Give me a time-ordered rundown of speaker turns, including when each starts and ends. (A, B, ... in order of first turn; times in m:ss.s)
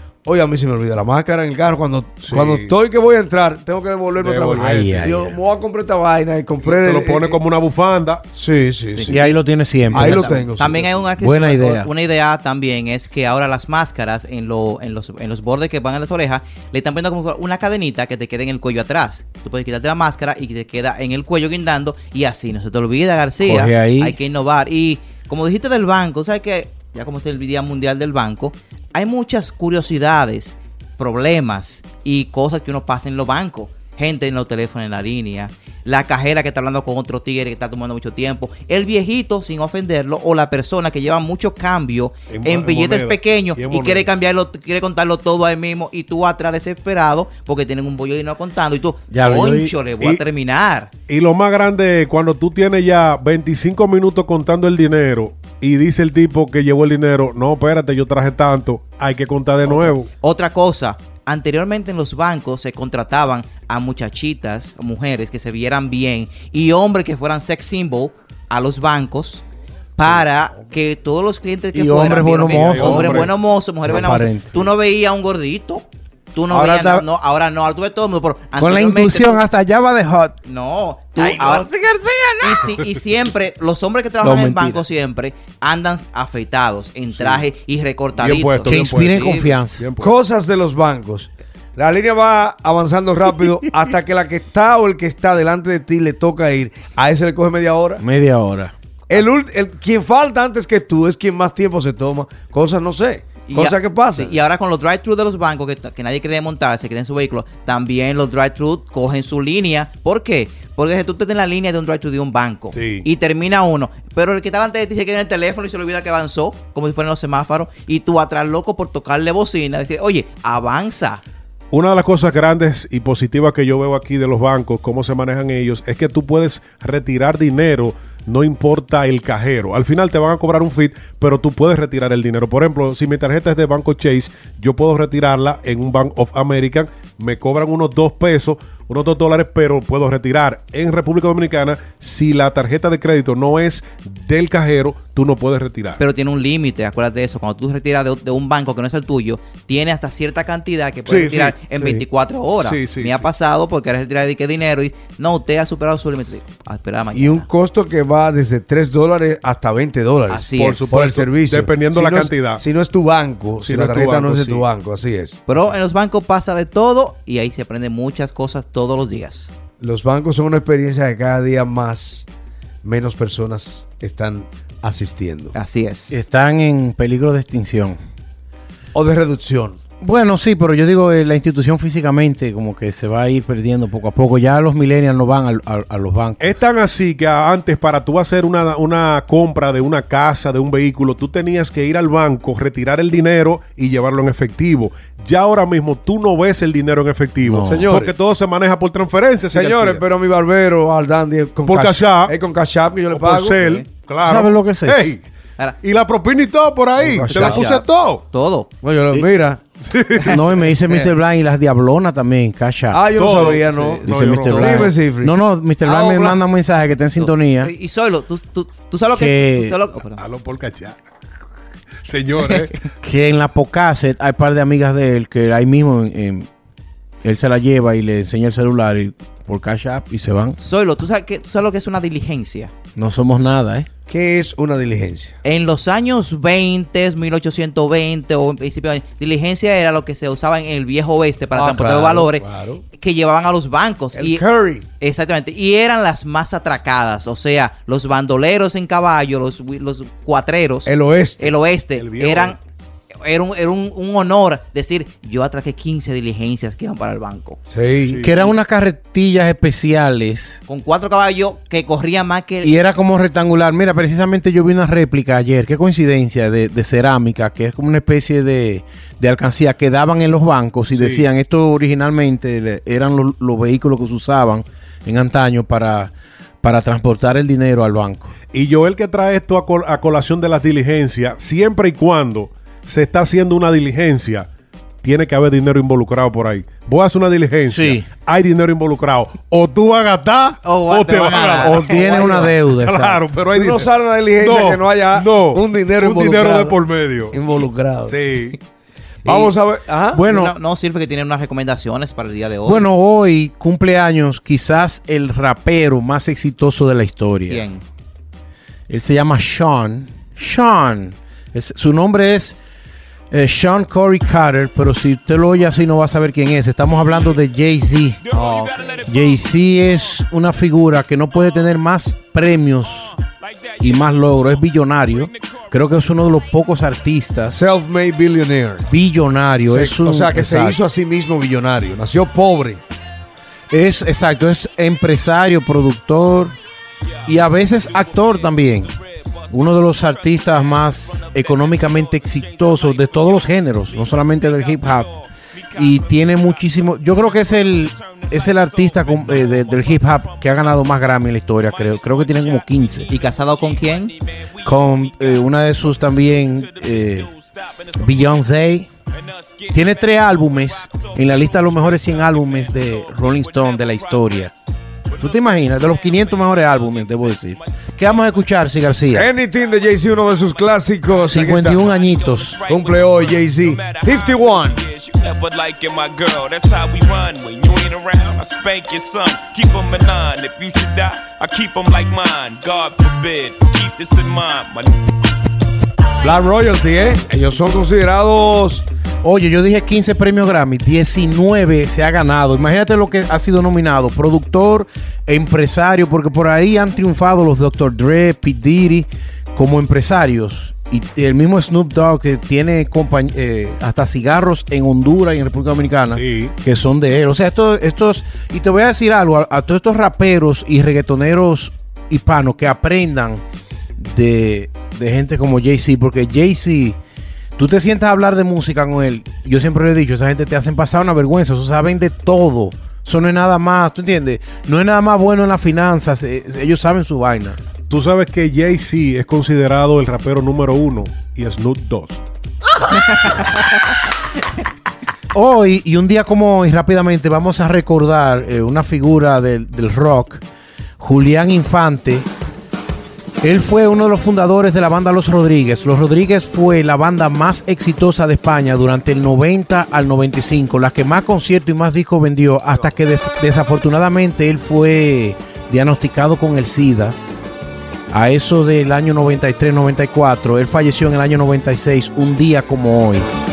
0:00.3-0:07.4 A
0:02.2-0:02.8 B
0:04.2-0:05.4 B
0:04.6-0:05.2 C
0:06.6-0:08.3 B
0:08.3-0:09.2 A
0:09.0-0:50.9 D
0:09.1-0:10.3 C
0:09.9-0:11.0 A
0:11.2-0:11.9 C
0:23.4-0:24.2 C
0:42.3-0:44.1 B
0:49.1-0:49.7 C
0:51.1-1:00.1 B
1:00.2-1:09.4 D
1:10.0-1:19.4 D
1:11.7-1:13.3 C
1:12.5-1:13.3 B
1:13.9-1:14.6 C
1:16.5-1:17.1 C
1:18.6-1:20.4 C
1:20.4-1:21.7 D
1:21.2-1:22.8 C
1:22.4-1:29.5 D
1:24.2-1:24.8 C
1:28.2-1:29.2 B
1:28.6-1:29.8 C
1:29.8-1:30.2 B
1:30.0-1:38.0 A
1:38.0-1:38.7 C
1:39.1-1:44.4 A
1:43.5-2:01.2 D
1:52.7-1:53.1 B
2:01.7-2:26.0 B
2:26.0-2:37.5 D
2:31.1-2:31.6 B
2:31.7-2:32.0 A
2:32.6-2:33.3 B
2:37.1-2:45.4 A
2:40.3-2:41.0 D
2:40.6-2:42.6 B
2:43.6-2:44.7 B
2:45.5-2:49.5 D
2:49.8-2:52.3 A
2:52.8-2:55.5 A
2:55.5-2:56.2 D
2:56.1-2:58.0 C
2:58.9-2:59.8 A
3:00.0-3:06.6 C
3:06.4-3:20.0 B
3:17.4-3:17.9 C
3:17.6-3:18.2 A
3:19.5-3:23.8 A
3:21.6-3:22.4 B
3:23.1-3:25.2 B
3:24.2-3:25.0 C
3:25.8-3:28.2 B
3:27.0-3:27.7 A
3:27.3-3:28.7 D
3:28.8-3:29.6 A
3:29.8-3:30.4 B
3:30.3-3:33.1 C
3:32.9-3:36.4 A
3:33.1-3:34.7 B
3:34.0-3:37.7 C
3:34.5-3:34.9 D
3:37.2-3:40.2 D
3:39.1-3:39.8 C
3:40.2-3:41.0 B
3:42.0-3:42.9 B
3:43.0-3:46.5 C
3:47.2-3:50.6 C
3:50.6-3:52.7 D
3:53.0-3:53.9 C
3:54.1-3:55.4 A
3:55.4-4:04.4 D
4:01.5-4:02.8 A
4:04.1-4:04.8 A
4:05.0-4:12.6 D
4:10.9-4:11.6 A
4:12.0-4:12.6 B
4:13.2-4:17.6 D
4:17.7-4:18.2 A
4:18.1-4:18.4 B
4:18.2-4:20.6 C
4:20.7-4:22.8 D
4:22.6-4:38.3 C
4:30.9-4:31.3 B
4:38.5-4:44.5 B
4:45.0-4:57.4 B
4:47.7-4:48.0 C
4:50.6-4:52.3 D
4:51.6-4:53.2 C
4:52.0-4:52.5 A
4:53.5-4:58.2 A
4:58.1-4:58.6 B
4:59.2-4:59.5 D
4:59.2-5:00.2 A
5:00.2-5:00.5 C
5:00.2-5:02.9 D
5:02.6-5:07.7 C
5:07.5-5:07.8 D
5:08.9-5:12.6 C
5:13.3-5:18.2 C
5:18.2-5:19.4 E
5:18.3-5:18.9 D
5:19.1-5:23.1 C
5:23.1-5:26.3 E
5:23.8-5:27.6 C
5:27.5-5:28.9 A
5:28.9-5:30.8 C
5:29.7-5:32.8 A
5:33.7-5:36.5 C
5:37.2-5:58.6 E
5:37.3-5:38.9 C
5:39.5-5:45.1 C
5:45.8-5:53.1 C
5:53.1-5:54.1 D
5:54.6-5:57.3 C
5:58.0-5:58.9 C
5:59.1-6:08.6 E
5:59.7-6:04.5 C
6:05.2-6:09.3 C
6:09.1-6:11.8 A
6:09.1-6:25.0 E
6:11.2-6:12.6 C
6:12.7-6:14.8 A
6:26.2-6:28.8 A
6:29.2-6:53.4 C
6:46.2-6:46.6 B
6:54.0-6:57.0 C
6:57.6-7:07.6 C
7:07.9-7:12.2 B
7:15.3-7:20.4 C
7:21.0-7:22.3 C
7:23.4-7:37.2 C
7:38.1-7:43.2 C